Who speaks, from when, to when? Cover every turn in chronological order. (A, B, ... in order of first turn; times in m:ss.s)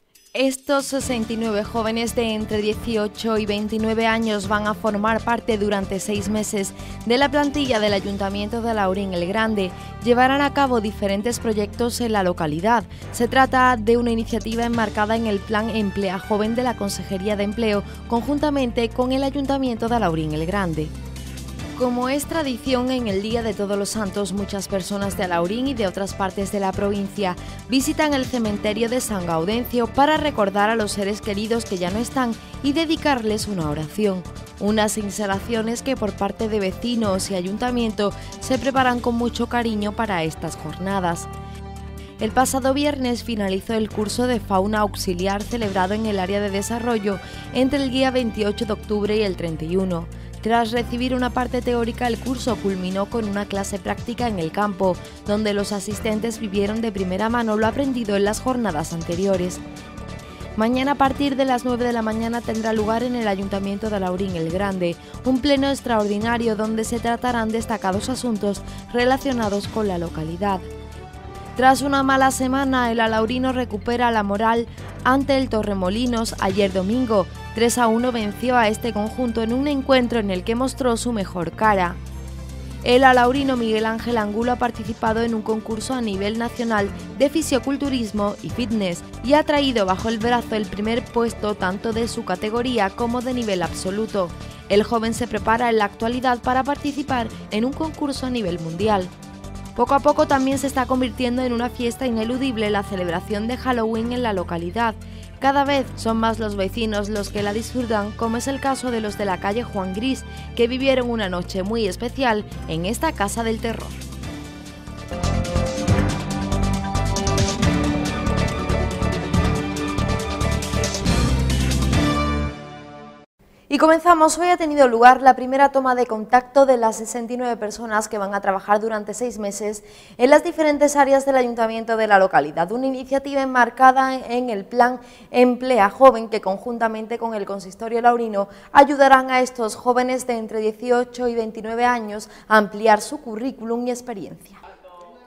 0:00.3-0:20.9 A
0:21.8-0:41.3 A
0:42.2-0:59.6 A
1:00.6-1:10.6 A
1:11.6-1:22.0 A
1:22.8-1:39.1 A
1:39.8-1:54.0 A
2:03.7-2:24.6 A